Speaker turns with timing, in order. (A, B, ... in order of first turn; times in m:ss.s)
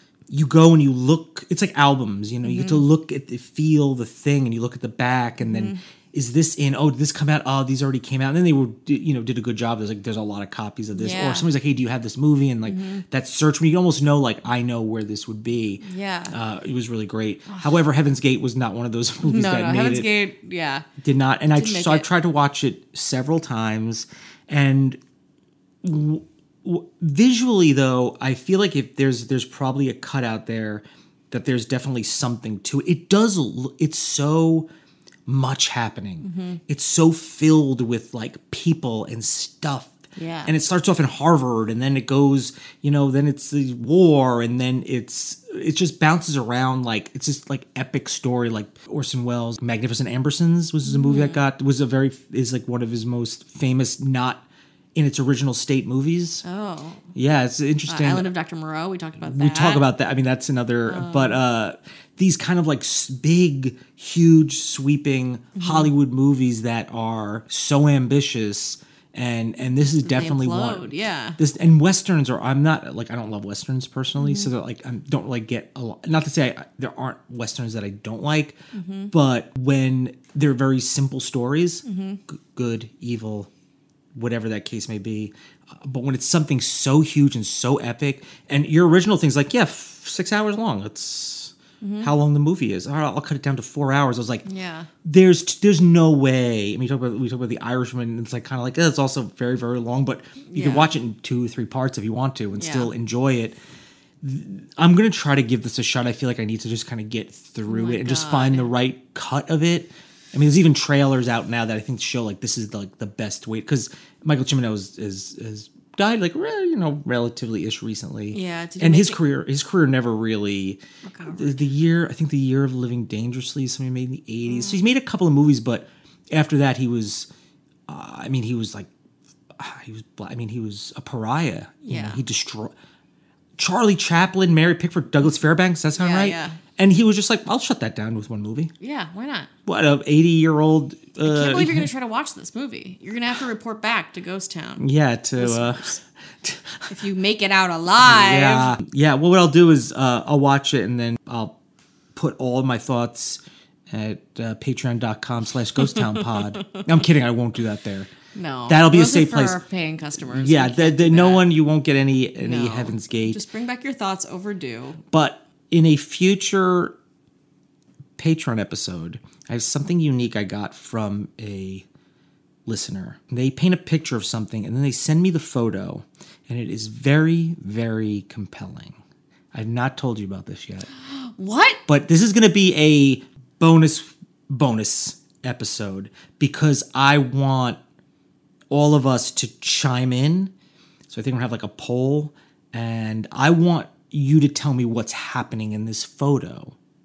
0:00.3-0:20.2 A
0:02.4-0:02.8 B
0:05.4-0:05.8 B
0:10.9-0:11.5 B
0:12.6-0:13.0 B
0:15.8-0:16.4 B
0:19.2-0:20.9 B
0:21.0-0:25.0 A
0:21.5-0:22.1 B
0:25.8-0:34.7 A
0:35.2-0:54.4 A
0:36.2-0:36.6 B
0:40.1-0:40.5 B
0:50.8-0:51.4 B
0:54.9-0:56.4 A
0:56.4-0:57.0 B
0:57.1-0:58.3 A
0:57.9-0:59.9 B
0:59.2-1:18.6 A
1:00.9-1:01.4 B
1:05.6-1:05.9 B
1:10.0-1:11.4 B
1:14.2-1:14.5 B
1:18.7-1:19.1 B
1:19.1-1:23.5 A
1:21.8-1:22.2 B
1:24.1-1:34.4 A
1:31.8-1:32.1 B
1:34.4-1:34.9 B
1:35.0-1:43.6 A
1:40.5-1:40.9 B
1:42.5-1:42.9 B
1:44.2-2:07.3 A
1:47.7-1:48.7 B
1:58.3-1:59.3 B
2:01.0-2:01.6 B
2:04.5-2:04.8 B
2:07.9-2:08.9 A
2:09.6-2:12.7 A
2:11.8-2:12.2 B
2:13.6-2:18.7 A
2:16.0-2:16.6 B
2:18.8-2:19.5 B
2:19.6-2:21.9 A
2:21.2-2:26.0 B
2:24.8-2:26.9 A
2:26.9-2:28.8 B
2:28.0-2:31.6 A
2:32.1-2:38.1 A
2:35.9-2:36.4 B
2:38.3-2:41.5 B
2:38.7-2:39.6 A
2:40.2-2:43.4 A
2:42.4-2:45.0 B
2:45.1-2:46.9 A
2:48.2-2:51.8 A
2:52.6-2:59.0 A
2:59.5-3:00.9 A
3:01.0-3:01.8 B
3:01.9-3:07.8 A
3:08.7-3:10.5 A
3:11.1-3:16.7 A